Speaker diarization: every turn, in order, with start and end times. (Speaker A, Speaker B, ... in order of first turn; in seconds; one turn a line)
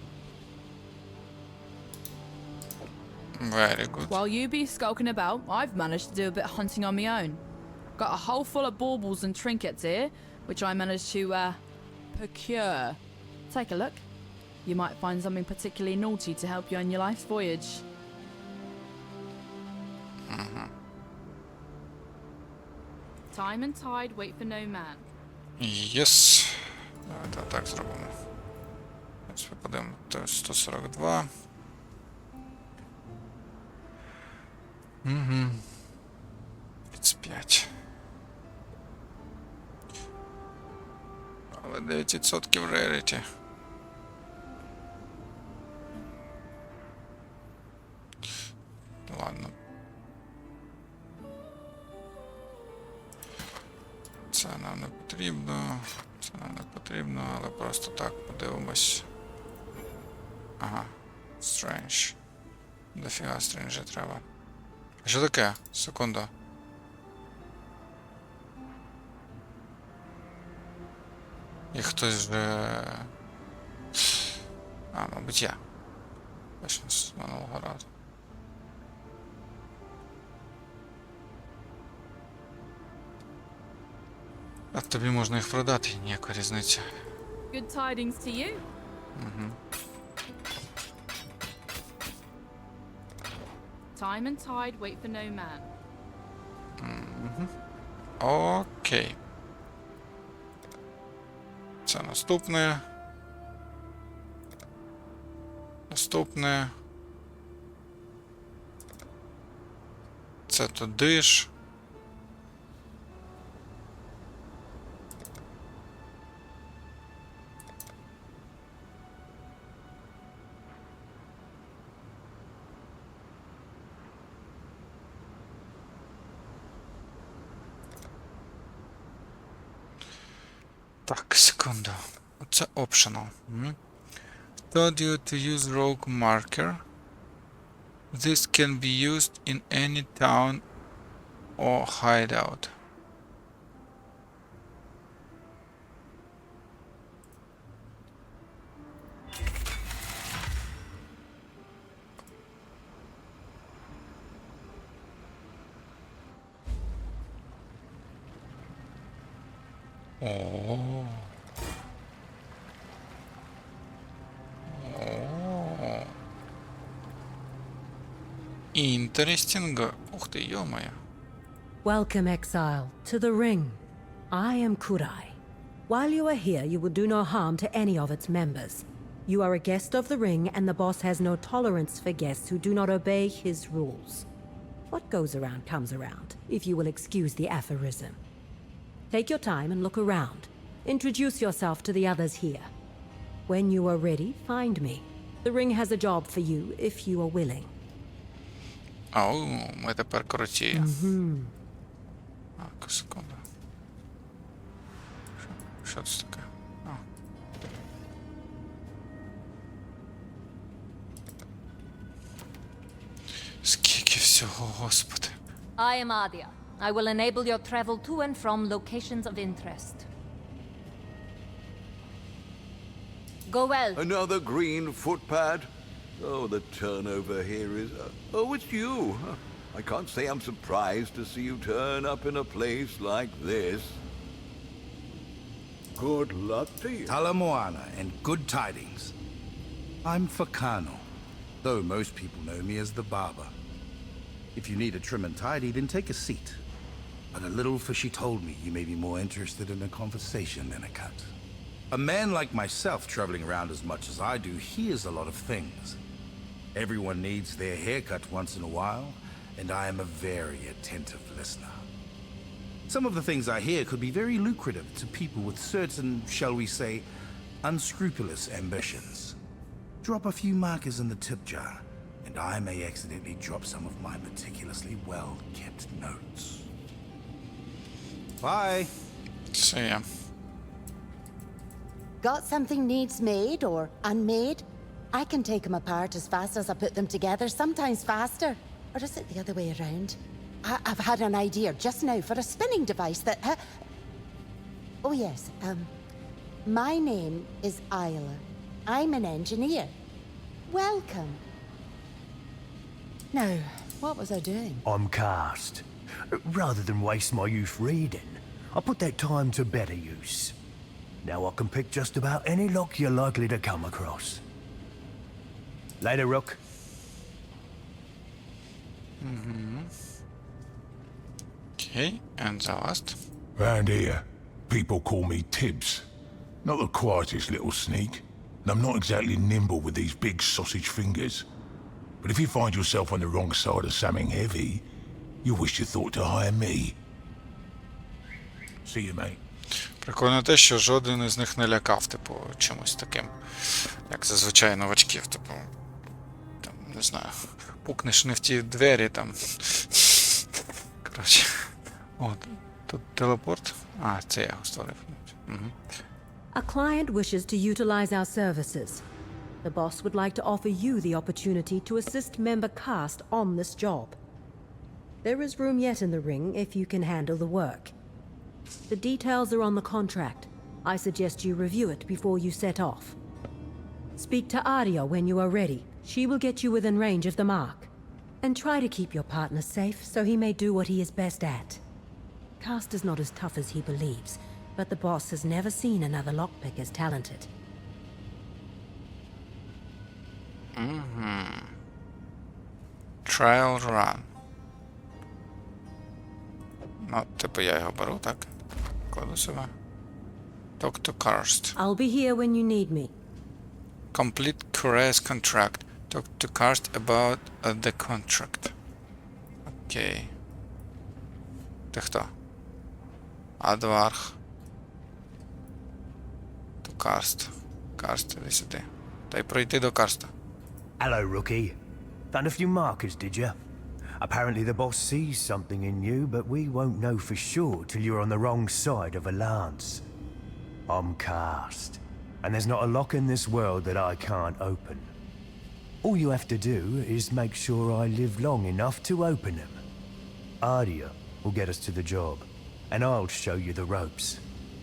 Speaker A: 3.4-4.1
Speaker B: 4.1-7.4
Speaker B: 8.0-11.6
Speaker B: 12.1-14.0
Speaker B: 14.6-17.8
Speaker A: 20.3-20.7
Speaker B: 23.3-25.1
Speaker A: 25.6-28.1
Speaker A: 29.3-31.3
Speaker A: 35.0-35.6
Speaker A: 36.9-37.7
Speaker A: 41.5-43.2
Speaker A: 49.1-49.5
Speaker A: 54.3-59.0
Speaker A: 60.6-62.1
Speaker A: 62.9-64.2
Speaker A: 65.0-66.3
Speaker A: 71.7-73.1
Speaker A: 74.9-75.6
Speaker A: 76.6-77.8
Speaker A: 84.7-86.8
Speaker B: 87.5-88.6
Speaker A: 89.2-89.6
Speaker B: 93.9-95.7
Speaker A: 96.8-97.5
Speaker A: 98.2-99.2
Speaker A: 101.8-102.8
Speaker A: 105.9-106.7
Speaker A: 110.5-111.5
Speaker A: 131.1-133.8
Speaker A: 134.7-136.8
Speaker A: 138.1-140.6
Speaker A: 141.6-142.7
Speaker A: 160.2-161.3
Speaker A: 164.7-166.1
Speaker A: 168.7-171.0
Speaker C: 171.8-184.3
Speaker C: 184.9-188.2
Speaker C: 189.1-192.7
Speaker C: 193.5-197.7
Speaker A: 199.1-200.9
Speaker C: 200.7-201.5
Speaker A: 202.6-203.4
Speaker A: 205.4-207.0
Speaker A: 213.6-215.3
Speaker D: 215.8-220.1
Speaker D: 223.5-224.0
Speaker E: 223.9-234.0
Speaker E: 236.0-237.2
Speaker F: 237.1-239.1
Speaker F: 240.0-241.1
Speaker F: 241.6-243.5
Speaker F: 244.5-246.6
Speaker F: 247.3-251.3
Speaker F: 251.9-256.0
Speaker F: 256.7-261.9
Speaker F: 262.9-267.0
Speaker F: 267.6-269.4
Speaker F: 270.0-276.7
Speaker F: 278.4-278.9
Speaker A: 279.5-280.1
Speaker G: 282.2-293.6
Speaker G: 295.0-295.9
Speaker G: 296.6-299.9
Speaker G: 300.7-301.4
Speaker G: 303.3-304.8
Speaker H: 304.8-305.8
Speaker H: 306.4-310.6
Speaker H: 311.2-314.4
Speaker H: 316.0-316.6
Speaker A: 319.2-319.9
Speaker A: 321.8-323.2
Speaker I: 323.6-326.0
Speaker I: 326.6-331.4
Speaker I: 332.2-334.8
Speaker I: 335.4-336.9
Speaker I: 338.8-339.4
Speaker A: 340.0-345.7
Speaker A: 346.6-355.8
Speaker C: 356.5-359.0
Speaker C: 359.6-364.2
Speaker C: 365.2-367.9
Speaker C: 368.9-373.1
Speaker C: 374.1-377.9
Speaker C: 378.4-381.8
Speaker C: 382.6-387.5
Speaker A: 390.7-391.7
Speaker A: 393.2-394.3
Speaker A: 397.0-398.5
Speaker A: 399.1-399.7
Speaker A: 400.8-401.7
Speaker C: 401.8-403.1
Speaker A: 404.1-408.7
Speaker A: 409.7-410.3
Speaker A: 411.9-412.3
Speaker A: 413.6-414.4
Speaker A: 416.8-420.3
Speaker H: 421.0-421.8
Speaker H: 422.3-423.6
Speaker H: 424.2-430.0
Speaker H: 430.9-435.1
Speaker H: 436.0-439.8
Speaker H: 440.6-444.4